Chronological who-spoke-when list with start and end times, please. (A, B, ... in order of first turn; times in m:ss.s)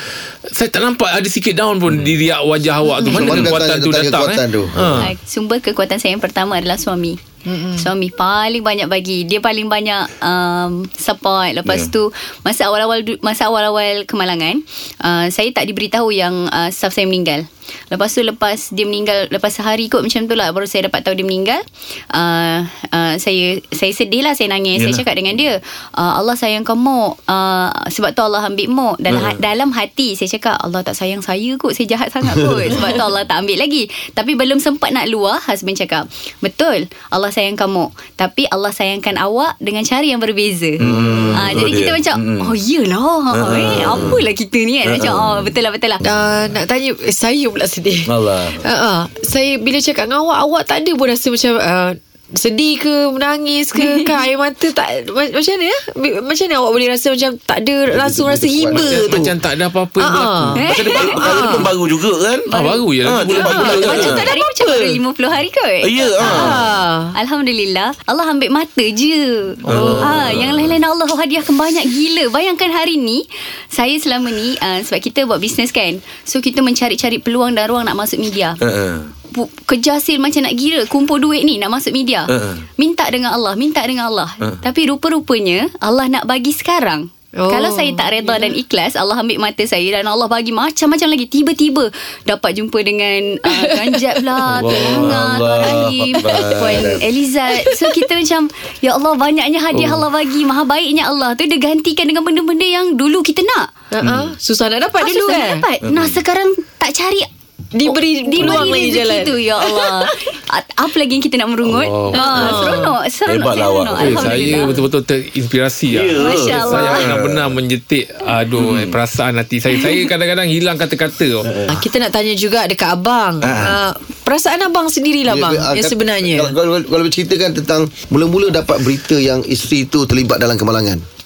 0:00.5-0:05.1 A
0:03.1-0:04.9 B
0:03.2-0:03.5 C
0:05.0-0:07.2 D
0:07.4-0:07.9 E
0:07.8-0:46.0 D
0:24.8-0:25.0 C
0:29.1-0:29.4 C
0:40.8-0:42.6 C
0:40.8-0:41.6 B
0:43.3-0:44.2 C
0:44.8-0:45.5 C
0:46.0-0:59.3 E
0:48.1-0:48.6 C
0:53.8-0:54.0 D
0:57.9-0:59.2 B
0:58.7-1:00.6 A
1:00.0-1:01.7 E
1:00.5-1:01.6 D
1:00.6-1:02.5 C
1:02.5-1:04.3 A
1:02.5-1:02.8 D
1:03.0-1:04.3 C
1:03.4-1:04.0 E
1:03.4-1:06.5 D
1:05.8-1:06.6 C
1:06.2-1:07.1 E
1:07.1-1:18.6 D
1:09.6-1:10.4 A
1:09.7-1:10.7 C
1:18.6-1:19.1 C
1:19.3-1:43.7 D
1:22.3-1:22.6 C
1:27.3-1:28.5 E
1:33.5-1:35.1 E
1:34.6-1:35.1 A
1:34.6-1:37.0 C
1:36.2-1:37.0 E
1:37.6-1:38.0 E
1:39.7-1:40.0 A
1:43.9-1:45.6 E
1:44.0-1:44.3 C
1:45.0-1:47.3 D
1:45.8-1:46.2 C
1:47.7-1:50.1 E
1:47.8-1:54.8 D
1:51.8-1:52.8 A
1:52.1-1:53.0 E
1:53.2-1:54.5 C
1:54.0-2:01.5 A
1:55.9-1:57.5 C
1:56.2-1:57.0 D
1:56.2-1:56.8 E
1:58.6-1:59.0 C
2:01.4-2:01.8 C
2:01.7-2:06.5 E
2:03.4-2:03.8 C
2:05.3-2:11.0 B